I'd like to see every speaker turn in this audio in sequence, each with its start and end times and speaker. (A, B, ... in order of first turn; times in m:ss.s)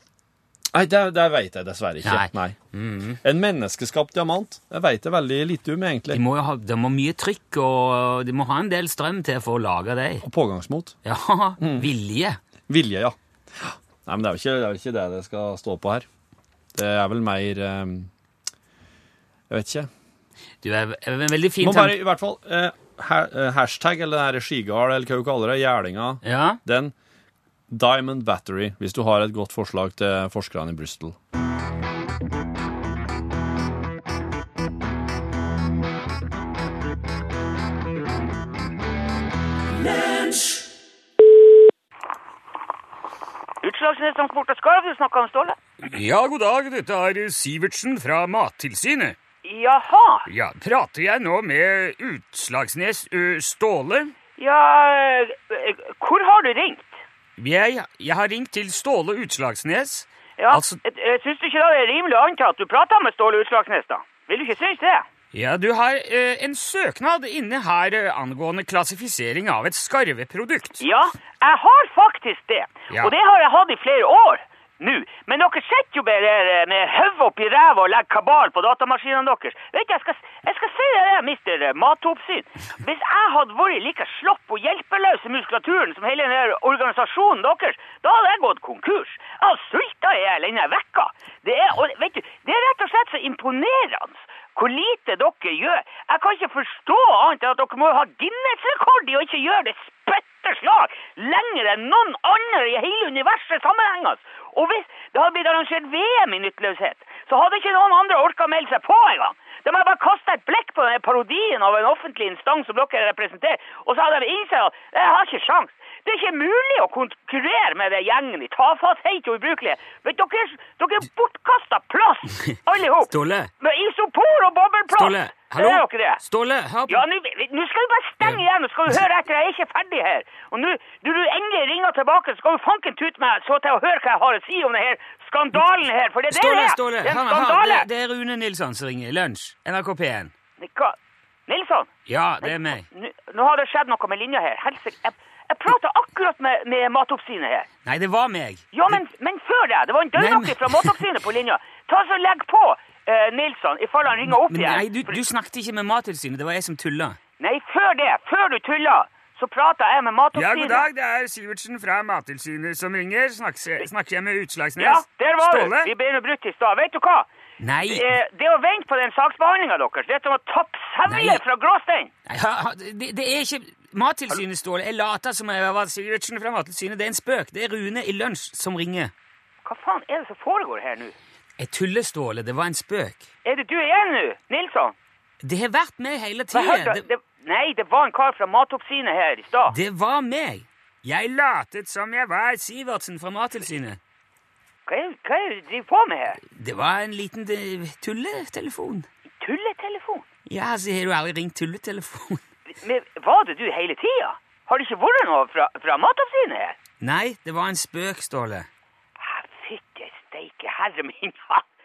0:00.7-0:02.6 A
0:02.0-0:03.2 B
0:03.2-0:06.2 A
0:06.1-0:10.2 B
0:10.2-0:11.0 A
0:11.0-0:12.4 B
0:11.6-0:11.9 A
0:12.7-0:16.1 A
0:16.8-0:18.1 A
0:19.5-0:19.9 A
0:20.6-0:22.0 B
0:21.6-0:26.9 A
0:26.2-0:26.6 B
0:27.7-0:31.2 A
0:43.6-0:45.6 C
0:45.8-0:49.2 B
0:49.4-0:50.3 C
0:50.3-0:54.2 B
0:54.4-0:57.0 C
0:57.4-1:00.8 B
1:00.4-1:05.1 C
1:05.3-1:10.8 B
1:10.8-2:06.2 C
2:03.1-2:03.5 B
2:04.9-2:07.0 B
2:06.9-2:17.9 C
2:16.3-2:20.3 B
2:20.6-2:21.0 C
2:21.5-2:27.7 C
2:22.1-2:22.9 B
2:27.8-2:29.0 B
2:28.7-2:35.2 C
2:30.2-2:31.0 B
2:34.3-2:37.2 B
2:37.4-2:40.8 C
2:40.4-2:45.9 B
2:44.8-2:47.3 C
2:47.6-2:48.1 B
2:47.9-2:52.1 C
2:51.0-2:51.4 B
2:52.3-2:59.1 B
2:59.6-3:01.2 C
3:01.6-3:03.3 B
3:03.4-3:05.0 C
3:05.4-3:07.0 B
3:06.5-3:09.8 C
3:09.7-3:14.0 B
3:14.9-3:16.4 C
3:16.4-3:19.1 B
3:19.4-3:20.3 C
3:20.5-3:22.4 B
3:22.7-3:26.8 C
3:27.0-3:28.7 B
3:29.2-3:31.6 C